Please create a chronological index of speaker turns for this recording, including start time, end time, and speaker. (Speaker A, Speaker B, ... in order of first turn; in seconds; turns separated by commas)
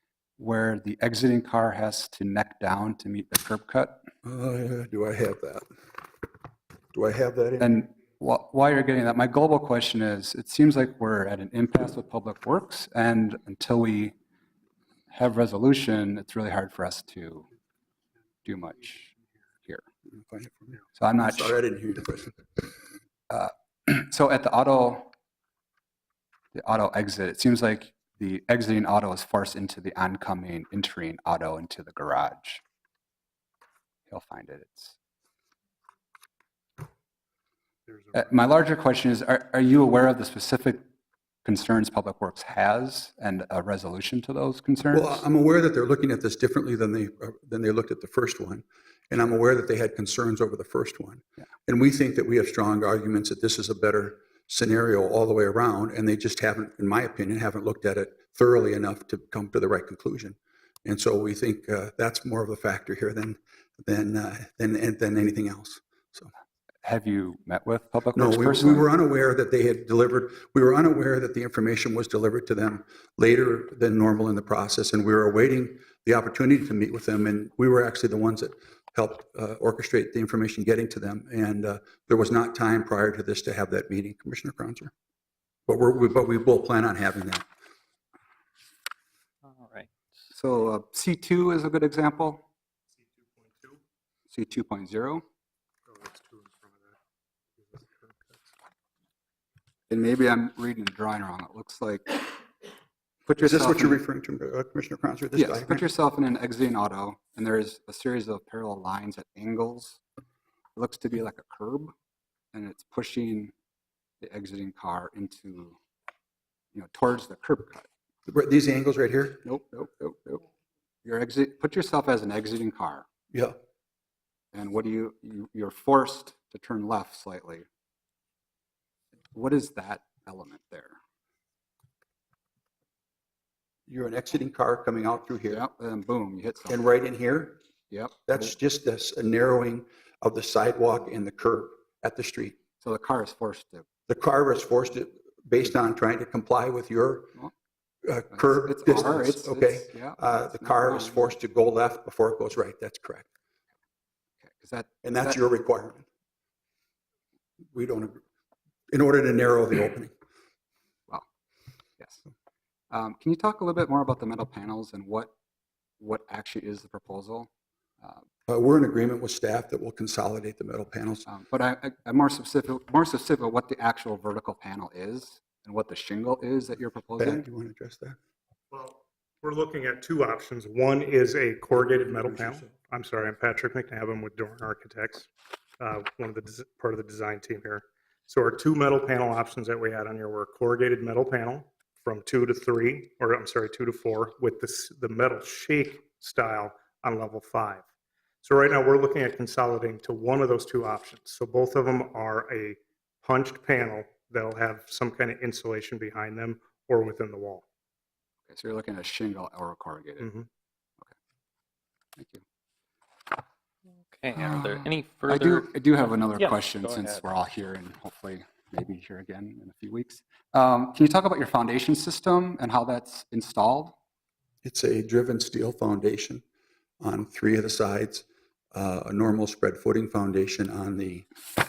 Speaker A: 0.4-4.0, Speaker B: 4.2-5.7, Speaker B: 6.9-7.8, Speaker A: 7.6-14.1, Speaker A: 15.1-17.5, Speaker A: 18.4-19.1, Speaker B: 20.1-22.5, Speaker A: 20.9-21.6, Speaker A: 23.3-25.1, Speaker A: 26.5-32.6, Speaker A: 34.1-35.0, Speaker A: 38.1-40.8, Speaker A: 41.4-45.2, Speaker B: 44.9-66.3, Speaker A: 66.8-68.9, Speaker B: 68.1-84.9, Speaker B: 85.7-87.5, Speaker C: 89.5-89.9, Speaker A: 90.3-92.4, Speaker D: 93.2-93.8, Speaker A: 94.3-95.2, Speaker D: 95.9-97.0, Speaker D: 97.6-98.5, Speaker A: 99.9-102.4, Speaker A: 103.3-104.0, Speaker B: 103.4-105.8, Speaker A: 105.3-110.0, Speaker A: 110.8-111.9, Speaker A: 112.5-113.5, Speaker A: 114.2-115.8, Speaker A: 116.7-117.9, Speaker B: 118.3-119.4, Speaker A: 119.4-120.4, Speaker A: 121.0-123.0, Speaker A: 124.5-127.7, Speaker A: 129.3-131.0, Speaker B: 133.9-135.6, Speaker A: 135.5-136.8, Speaker B: 136.7-137.6, Speaker A: 137.9-138.3, Speaker B: 138.3-142.6, Speaker A: 142.8-143.8, Speaker B: 144.1-147.3, Speaker B: 148.0-153.3, Speaker A: 148.3-151.3, Speaker A: 154.4-155.4, Speaker B: 155.0-156.1, Speaker B: 157.7-158.2, Speaker B: 158.9-160.1, Speaker A: 162.9-165.3, Speaker A: 166.0-167.5, Speaker B: 168.5-171.3, Speaker A: 171.2-177.4, Speaker B: 177.2-178.2, Speaker D: 178.7-197.8, Speaker B: 181.7-182.7, Speaker D: 198.4-207.6, Speaker A: 208.5-210.3, Speaker D: 210.2-210.5, Speaker A: 212.2-212.4, Speaker C: 214.0-215.7, Speaker A: 214.3-223.9, Speaker C: 216.3-217.2, Speaker B: 224.6-226.4, Speaker B: 227.0-231.3